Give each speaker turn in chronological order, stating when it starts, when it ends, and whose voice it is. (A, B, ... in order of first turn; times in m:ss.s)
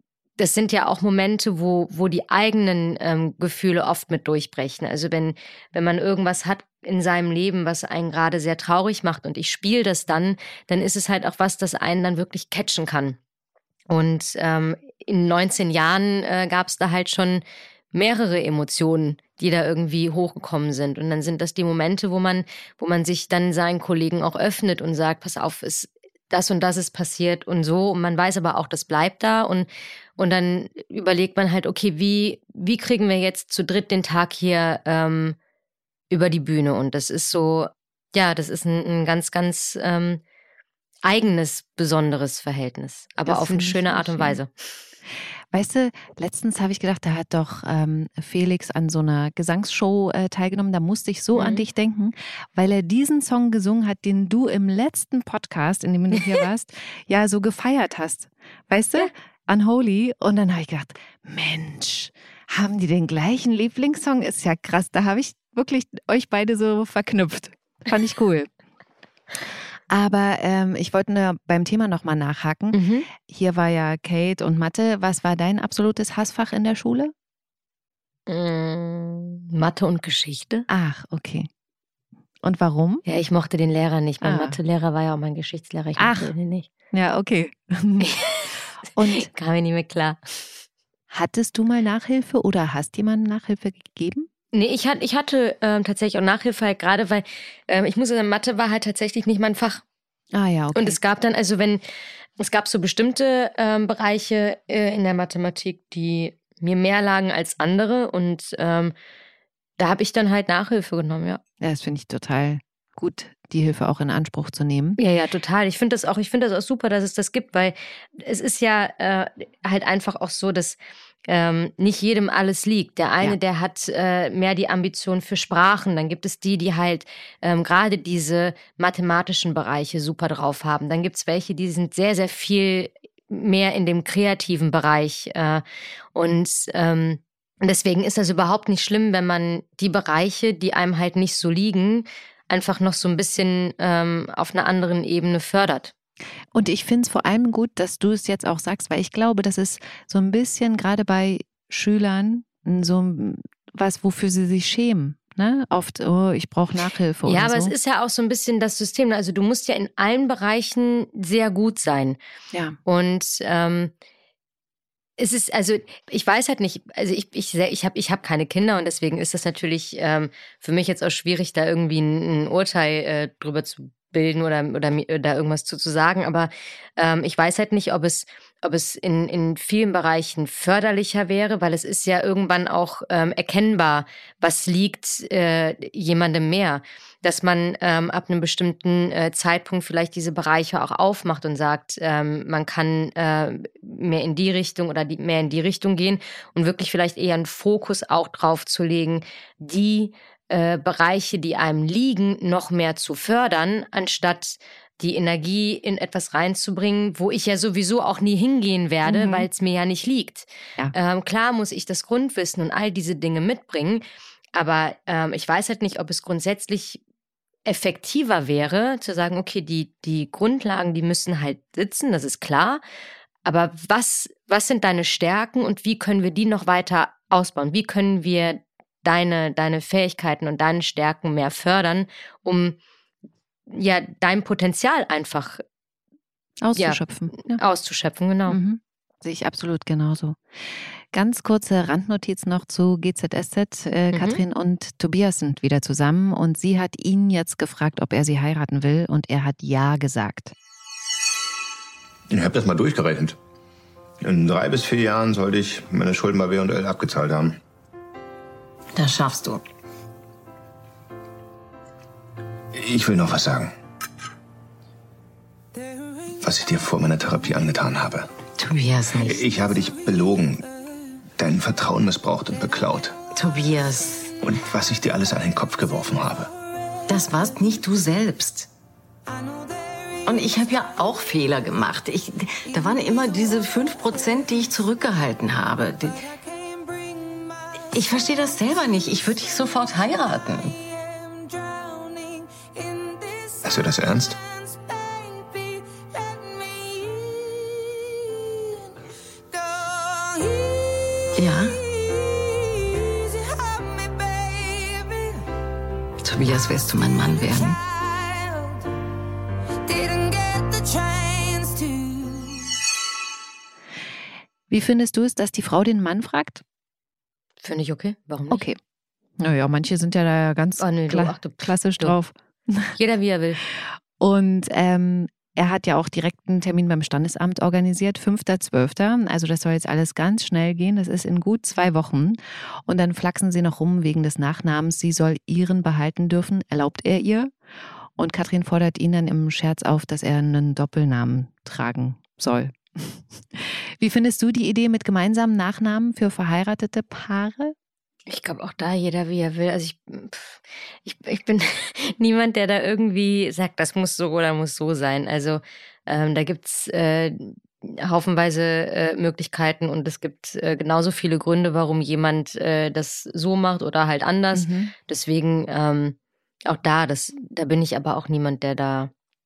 0:00.4-0:13.2 A
0:13.9-0:17.4 A
0:17.9-0:35.4 A
0:36.1-0:40.2 A
0:41.0-0:44.5 A
0:43.2-0:44.4 B
0:45.5-1:08.5 B
0:51.3-0:51.6 A
1:09.9-1:17.1 B
1:12.7-1:13.1 A
1:18.3-1:20.6 A
1:20.7-1:21.5 B
1:22.4-1:23.0 B
1:23.0-1:26.7 A
1:24.2-1:24.6 B
1:26.0-1:26.3 B
1:26.9-1:28.1 B
1:28.0-1:28.5 A
1:28.9-1:29.3 B
1:29.2-1:30.6 A
1:31.1-1:34.3 B
1:34.5-1:39.8 A
1:40.3-1:41.0 B
1:40.7-1:41.8 A
1:42.4-1:48.9 A
1:49.8-1:51.4 A
1:51.6-1:55.0 B
1:55.0-2:15.6 A
2:16.1-2:25.9 A
2:26.5-2:37.7 B
2:37.2-2:42.2 A
2:42.5-2:42.8 B
2:42.8-2:43.9 A
2:45.2-3:34.0 A
3:29.0-3:29.5 B
3:34.5-3:37.0 A
3:37.6-3:42.8 A
3:43.4-3:52.8 A
3:53.7-3:55.6 A
3:56.6-3:57.6 B
3:56.8-3:58.6 A
3:58.5-4:10.5 B
4:04.1-4:04.4 A
4:12.3-4:13.4 C
4:14.2-4:17.6 C
4:18.9-4:19.6 D
4:22.7-4:23.7 C
4:26.4-4:28.3 C
4:28.6-4:29.4 D
4:29.2-4:30.7 C
4:31.4-4:33.2 C
4:33.3-4:34.3 D
4:34.4-4:36.5 C
4:37.1-4:38.7 D
4:40.2-4:46.3 D
4:47.9-4:50.8 D
4:53.6-4:54.4 C
5:01.4-5:01.8 D
5:06.2-5:07.8 D
5:14.7-5:16.6 B
5:17.6-5:18.6 A
5:18.5-5:18.8 B
5:19.4-5:22.9 B
5:20.8-5:22.2 A
5:23.0-5:23.6 A
5:23.7-5:37.5 B
5:38.2-5:47.7 B
5:48.3-6:09.1 A
6:04.5-6:04.9 B